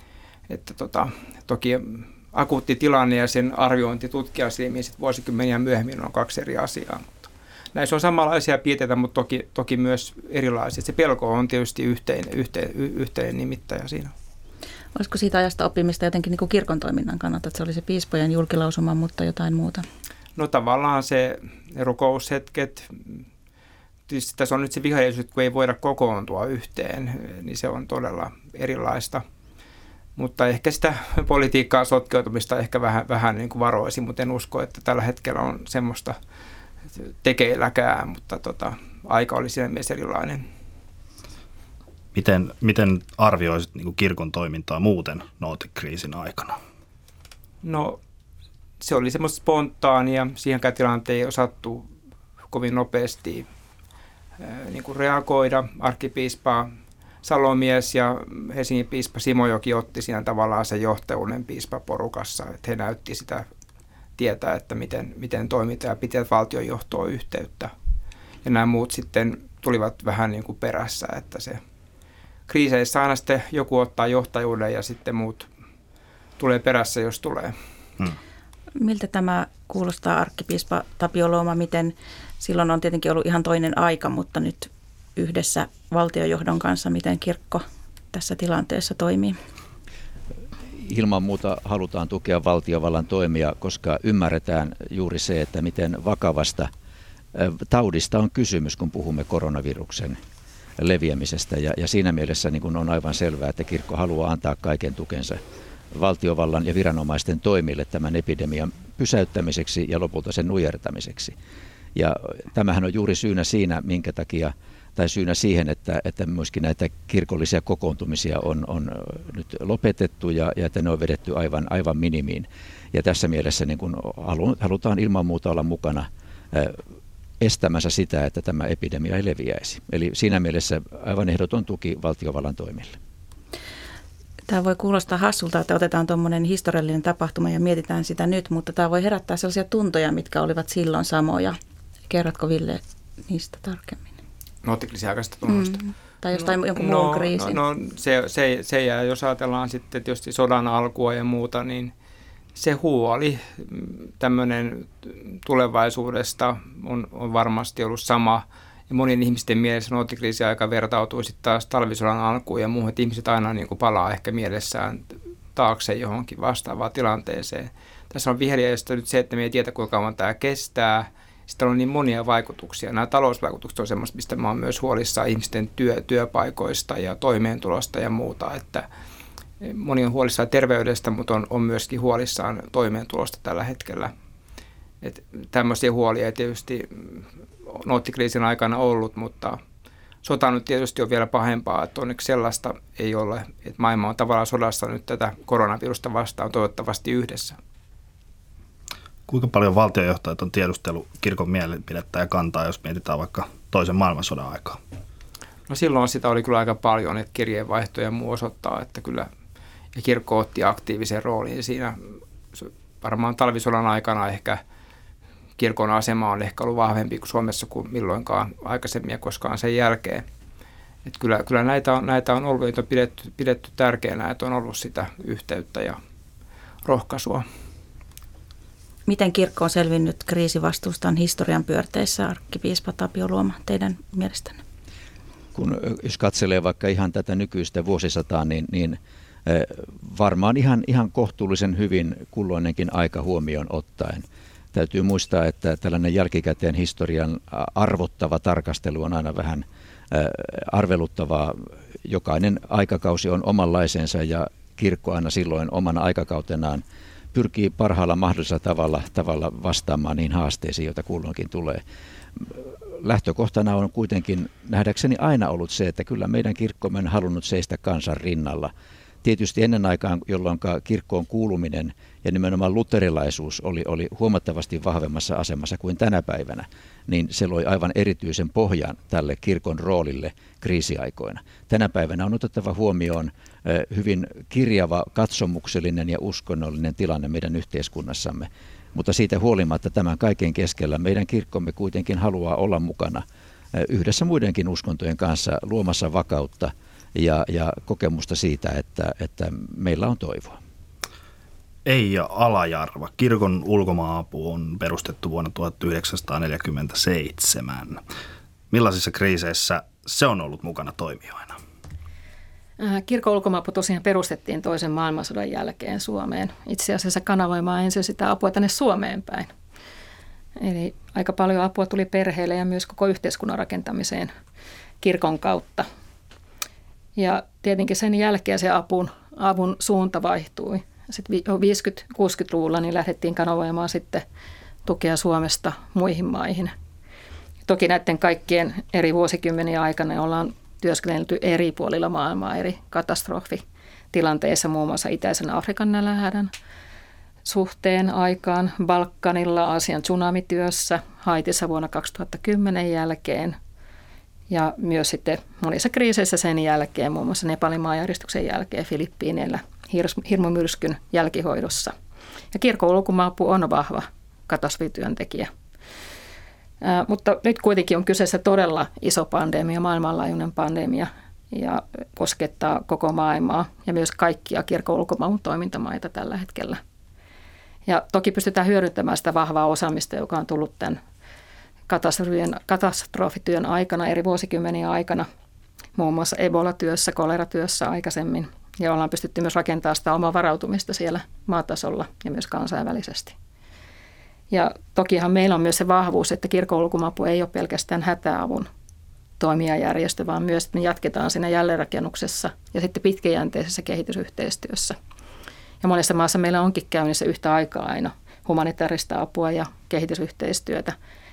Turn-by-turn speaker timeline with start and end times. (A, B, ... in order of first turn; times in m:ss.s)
0:00.5-0:14.1 A
0:15.0-0:19.8 B
0:20.4-0:23.2 A
0:24.1-0:29.2 A
0:30.2-0:36.2 A
0:37.0-0:40.5 A
0:42.1-0:46.6 C
0:47.6-0:48.0 A
0:48.8-0:51.9 A
0:52.5-0:53.5 A
0:54.4-0:56.7 A
0:57.2-1:03.5 A
1:04.2-1:07.7 A
1:08.4-1:11.6 A
1:12.5-1:15.5 A
1:16.4-1:17.6 A
1:18.8-1:29.4 B
1:30.7-1:36.7 D
1:37.3-1:40.2 D
1:40.8-1:45.4 D
1:45.9-1:51.4 D
1:52.0-2:06.8 D
2:07.4-2:13.0 D
2:14.5-2:21.6 B
2:22.1-2:24.1 B
2:24.6-2:25.8 A
2:25.5-2:27.6 B
2:26.3-2:31.9 A
2:32.6-2:58.8 A
2:59.6-3:04.1 A
3:05.0-3:09.6 A
3:10.2-3:17.6 A
3:19.3-3:24.8 C
3:25.7-3:29.3 A
3:29.9-3:34.6 A
3:35.6-3:40.2 A
3:41.0-3:46.0 A
3:46.8-3:47.4 A
3:49.1-3:54.6 B
3:55.6-4:16.8 D
4:17.3-4:21.8 D
4:22.4-4:28.7 D
4:29.2-5:00.6 D
5:01.9-5:08.0 C
5:08.7-5:11.6 C
5:12.8-5:19.5 E
5:20.6-5:24.3 E
5:25.0-5:25.9 E
5:27.2-5:34.2 E
5:34.8-5:36.7 E
5:37.7-5:46.5 E
5:47.4-5:53.6 E
5:54.5-6:01.9 E
6:02.5-6:05.5 E
6:06.8-6:16.8 E
6:17.9-6:21.0 E
6:21.9-6:25.3 E
6:26.0-6:33.4 E
6:34.5-6:38.7 E
6:39.4-6:45.0 E
6:45.8-6:51.0 E